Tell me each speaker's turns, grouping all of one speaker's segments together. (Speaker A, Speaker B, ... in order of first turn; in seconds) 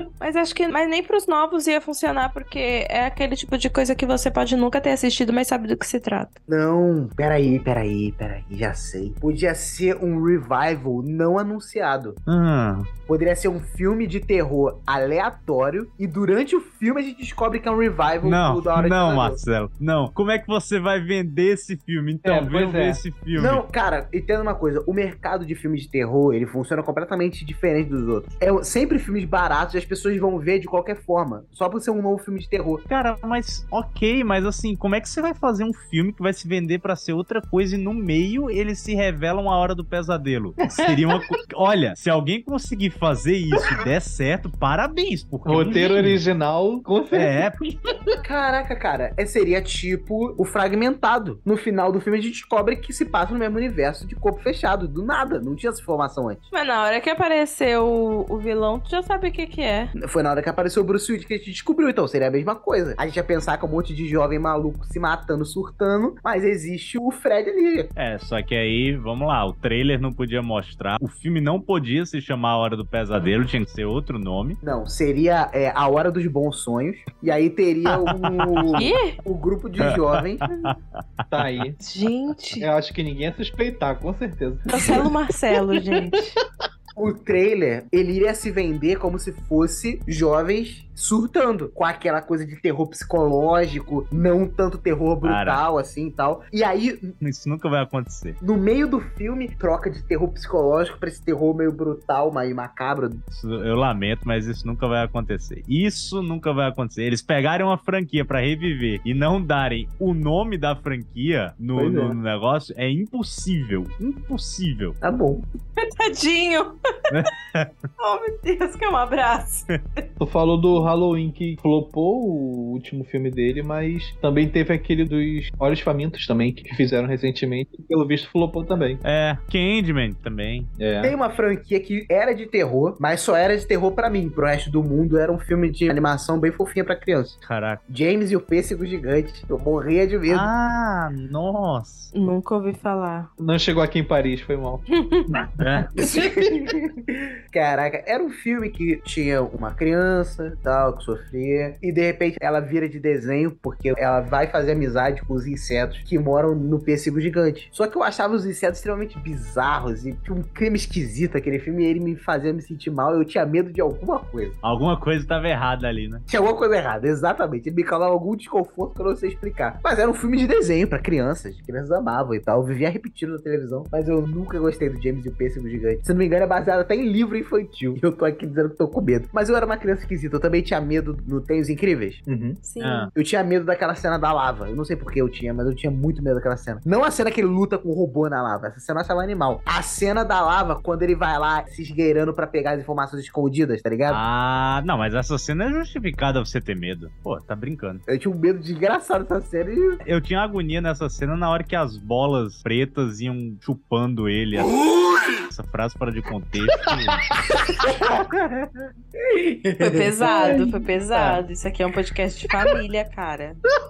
Speaker A: 0.2-6.3, 56.5-59.9, 78.8-79.2, 81.8-82.7, 84.7-86.4, 115.8-116.8, 118.0-119.7, 142.1-143.3, 145.0-145.3, 182.6-183.1, 209.8-213.6
Speaker B: 6.5-12.2, 13.1-19.4, 23.3-32.8, 48.2-56.4, 60.0-67.9, 74.6-80.5, 87.0-97.1, 98.4-103.2, 111.8-112.2, 115.0-115.5, 131.0-140.5, 146.0-146.9, 147.5-164.6, 166.3-182.2, 183.2-194.2, 198.1-200.0, 207.8-210.6
Speaker C: 12.3-12.9, 18.2-23.6, 32.9-46.2, 47.1-47.6, 68.0-74.6, 77.9-78.8, 79.9-81.7, 95.2-95.6, 97.2-98.4, 103.3-115.0, 117.1-117.7, 129.0-130.7, 137.4-137.8, 140.3-142.1, 145.6-145.9, 164.6-166.2, 182.8-183.1, 194.1-198.0, 200.1-204.8, 205.5-207.3
Speaker D: 22.2-23.0, 40.7-41.2, 45.5-47.9, 81.3-81.8, 82.6-85.1, 120.2-129.0, 130.8-131.1, 143.4-144.8, 182.3-182.6, 210.2-211.4